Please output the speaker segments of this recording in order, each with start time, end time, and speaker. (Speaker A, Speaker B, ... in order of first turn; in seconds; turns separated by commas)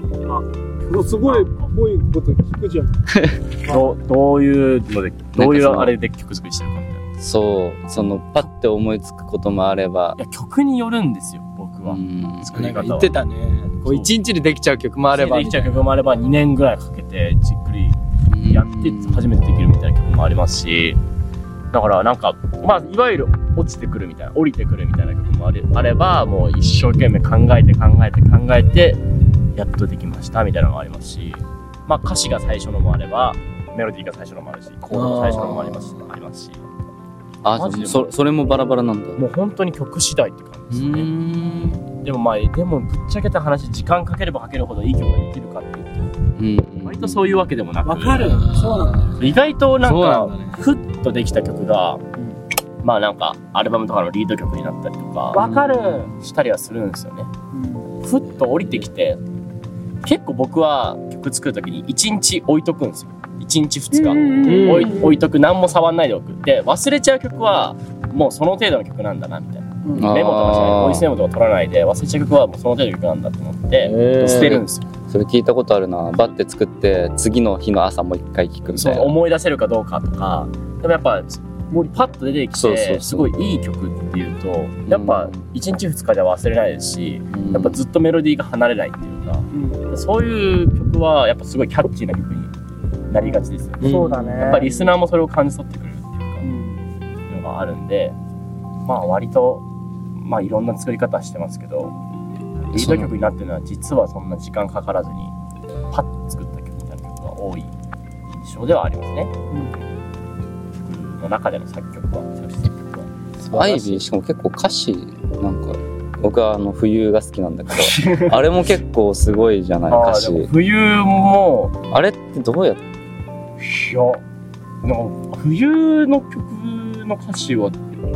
Speaker A: 0.3-3.1, Speaker B: 1.0-1.7, Speaker B: 3.7-7.1, Speaker C: 5.4-5.9, Speaker C: 7.2-10.2, Speaker B: 10.2-13.1, Speaker C: 11.9-12.5, Speaker D: 12.5-15.9, Speaker B: 15.1-18.0, Speaker C: 18.3-19.3, Speaker B: 18.5-21.0, Speaker B: 21.7-29.0, Speaker B: 29.6-36.6, Speaker D: 34.9-36.0, Speaker C: 37.4-39.2, Speaker B: 37.6-38.1, Speaker B: 39.2-41.1, Speaker C: 40.7-41.8, Speaker B: 42.0-46.1, Speaker C: 46.4-47.2, Speaker B: 46.8-48.4, Speaker A: 47.9-49.2, Speaker D: 48.2-49.2, Speaker B: 49.2-52.0, Speaker D: 49.8-50.6, Speaker B: 52.8-57.3, Speaker C: 55.3-56.1, Speaker A: 55.4-55.8, Speaker A: 57.5-57.9, Speaker B: 58.0-59.2, Speaker B: 60.0-74.9, Speaker A: 63.9-65.2, Speaker D: 64.4-65.0, Speaker C: 70.0-71.1, Speaker D: 73.8-74.6, Speaker C: 74.2-79.2, Speaker B: 78.7-92.5, Speaker C: 82.6-83.3, Speaker C: 84.9-85.4, Speaker C: 87.3-87.8, Speaker A: 89.5-89.8, Speaker B: 93.1-96.5, Speaker A: 93.2-94.9, Speaker D: 93.8-94.6, Speaker A: 96.4-96.8, Speaker B: 97.3-98.2, Speaker B: 98.9-99.6, Speaker B: 100.2-102.0, Speaker B: 102.7-105.3, Speaker C: 102.7-103.1, Speaker B: 105.9-107.7, Speaker B: 108.3-109.3, Speaker B: 110.8-113.8, Speaker D: 113.5-113.9, Speaker C: 113.5-120.5, Speaker B: 117.8-118.4, Speaker B: 119.9-121.8, Speaker C: 121.9-122.8, Speaker B: 123.6-124.2, Speaker B: 124.8-127.8